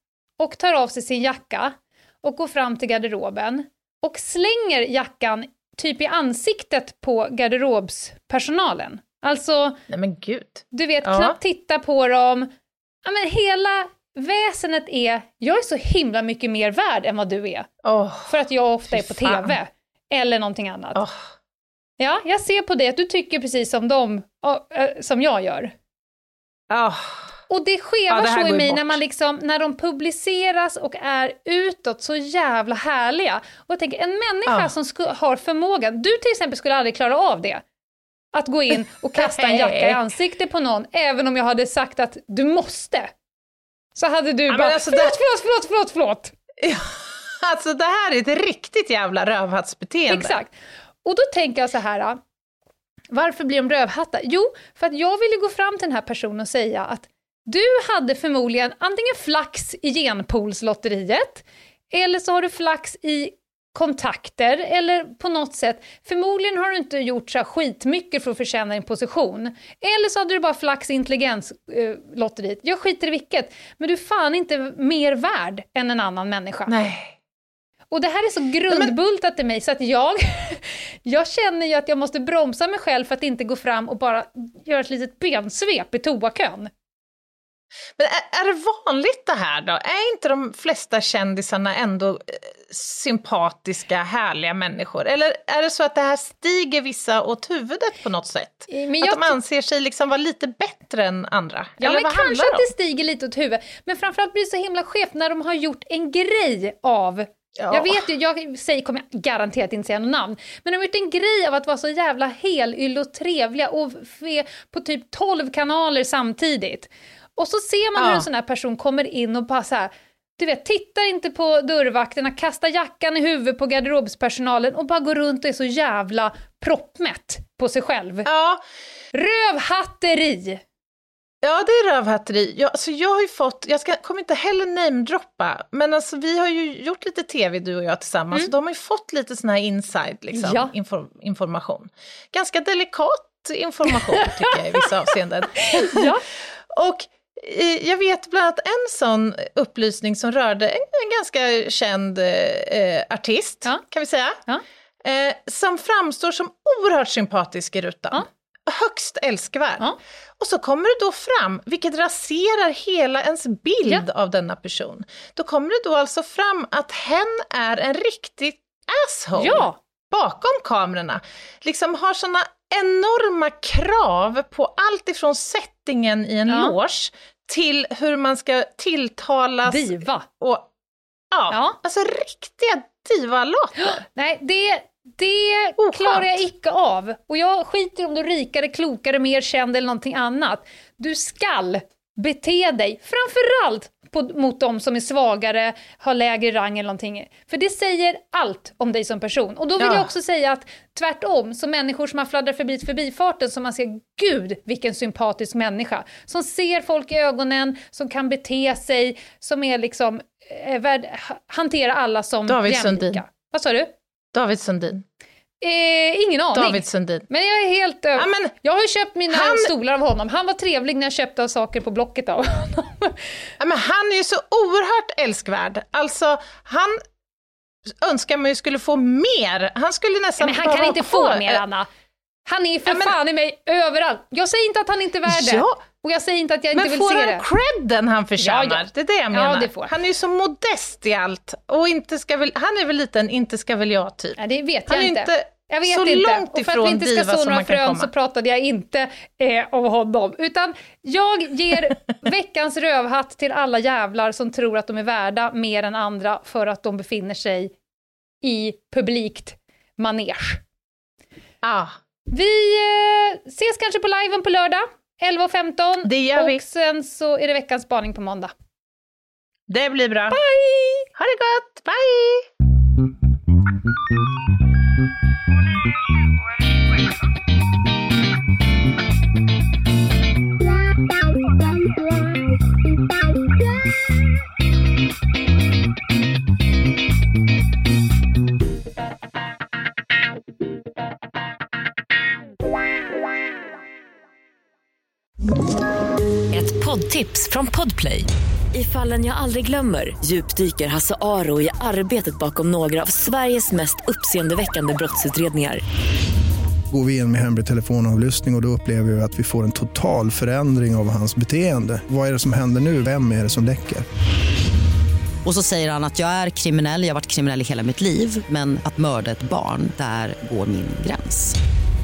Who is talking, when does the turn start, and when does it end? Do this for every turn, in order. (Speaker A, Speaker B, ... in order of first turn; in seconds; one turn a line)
Speaker A: 0.4-9.8
Speaker B: 9.9-11.4
Speaker A: 10.7-12.5
Speaker A: 13.0-17.7
Speaker B: 17.8-18.3
Speaker A: 18.3-21.0
Speaker B: 18.9-19.6
Speaker B: 20.9-21.3
Speaker A: 22.0-25.7
Speaker B: 26.7-27.3
Speaker A: 27.5-37.6
Speaker B: 28.1-29.0
Speaker B: 34.5-34.7
Speaker A: 38.3-43.1
Speaker B: 39.1-40.0
Speaker A: 44.0-46.3
Speaker B: 44.5-45.2
Speaker B: 46.6-50.4
Speaker A: 50.1-52.2
Speaker A: 53.1-76.7
Speaker B: 76.7-77.2
Speaker A: 77.9-86.7
Speaker B: 88.0-102.7
Speaker A: 98.7-99.4
Speaker A: 101.8-128.3
Speaker B: 107.6-108.0
Speaker B: 118.0-118.3
Speaker B: 128.3-128.6
Speaker A: 129.1-130.6
Speaker B: 131.4-154.4
Speaker A: 140.3-140.7
Speaker A: 143.9-144.8
Speaker A: 145.6-146.2
Speaker B: 155.0-159.9
Speaker B: 160.4-180.7
Speaker A: 169.4-169.8
Speaker A: 176.5-176.8
Speaker A: 179.7-180.3
Speaker B: 181.3-184.1
Speaker A: 181.5-181.8
Speaker A: 183.8-213.9
Speaker B: 185.8-186.4
Speaker B: 199.8-200.1
Speaker B: 212.5-213.2
Speaker B: 214.3-215.0
Speaker A: 215.6-223.4
Speaker B: 216.5-217.3
Speaker B: 218.2-218.5
Speaker B: 219.3-219.7
Speaker B: 223.6-227.0
Speaker B: 227.9-231.6
Speaker A: 230.4-231.9
Speaker A: 232.5-237.4
Speaker B: 232.9-233.1
Speaker B: 235.3-235.8
Speaker B: 236.7-248.1
Speaker A: 238.4-239.9
Speaker A: 244.4-257.8
Speaker A: 258.4-260.6
Speaker B: 261.6-262.0
Speaker A: 262.3-268.5
Speaker B: 266.1-266.6
Speaker B: 269.7-270.4
Speaker A: 270.3-271.1
Speaker B: 271.1-272.5
Speaker C: 296.5-305.8
Speaker D: 306.9-314.1
Speaker E: 315.4-321.6